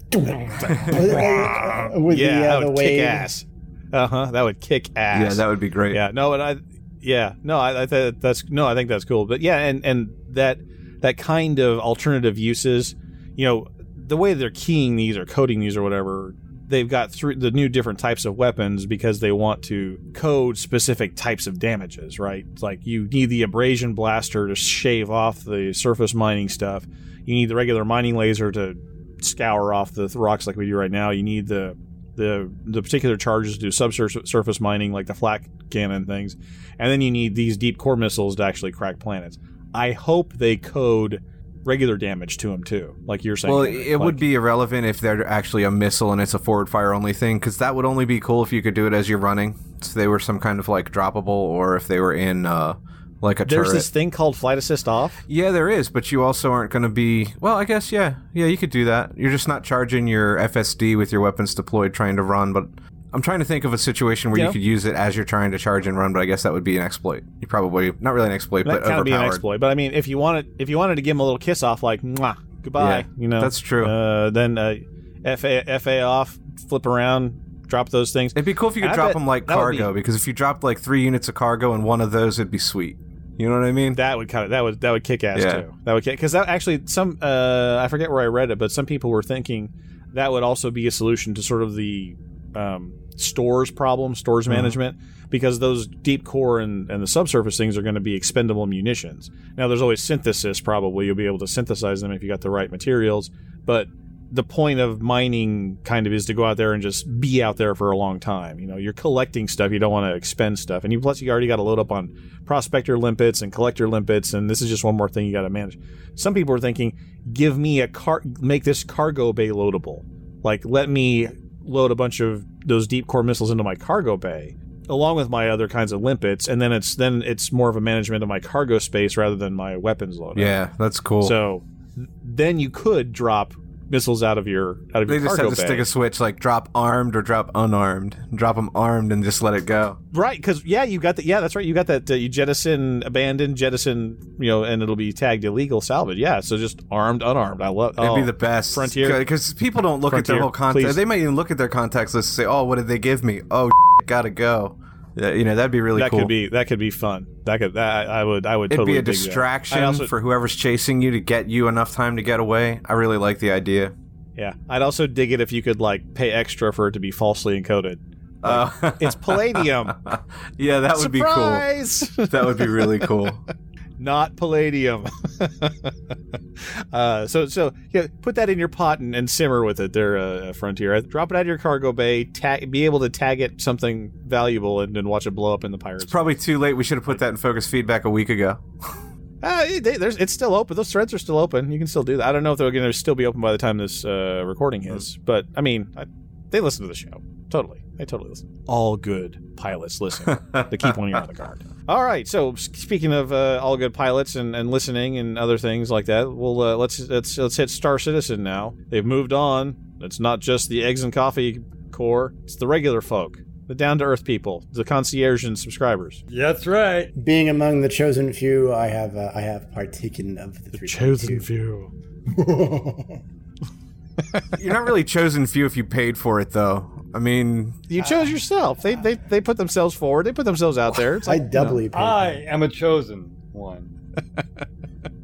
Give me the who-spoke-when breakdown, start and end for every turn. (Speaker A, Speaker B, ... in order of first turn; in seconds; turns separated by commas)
Speaker A: 0.1-3.3, Speaker B: 0.7-1.0, Speaker C: 0.8-44.2, Speaker B: 5.1-6.0, Speaker B: 43.5-53.9, Speaker C: 53.5-55.2, Speaker B: 55.3-69.4, Speaker C: 68.7-79.9, Speaker B: 72.8-73.9, Speaker B: 78.3-84.0, Speaker C: 83.9-130.6, Speaker B: 85.4-85.7, Speaker B: 94.5-94.7, Speaker B: 130.4-131.4, Speaker C: 131.2-135.9, Speaker B: 135.1-140.0, Speaker C: 140.1-149.2, Speaker B: 148.0-156.3, Speaker C: 150.1-151.0, Speaker C: 155.9-160.1, Speaker B: 158.7-163.9, Speaker C: 164.4-170.0, Speaker B: 168.4-173.4, Speaker C: 171.0-173.1, Speaker C: 174.0-175.9, Speaker C: 176.9-186.2, Speaker B: 186.0-188.6, Speaker C: 189.4-216.2, Speaker B: 200.3-200.8, Speaker D: 216.3-217.1, Speaker A: 217.2-221.5, Speaker C: 220.7-221.9, Speaker A: 222.3-223.2, Speaker B: 224.5-227.8, Speaker C: 227.9-231.4, Speaker A: 228.0-228.3, Speaker A: 231.2-232.3, Speaker D: 231.6-233.9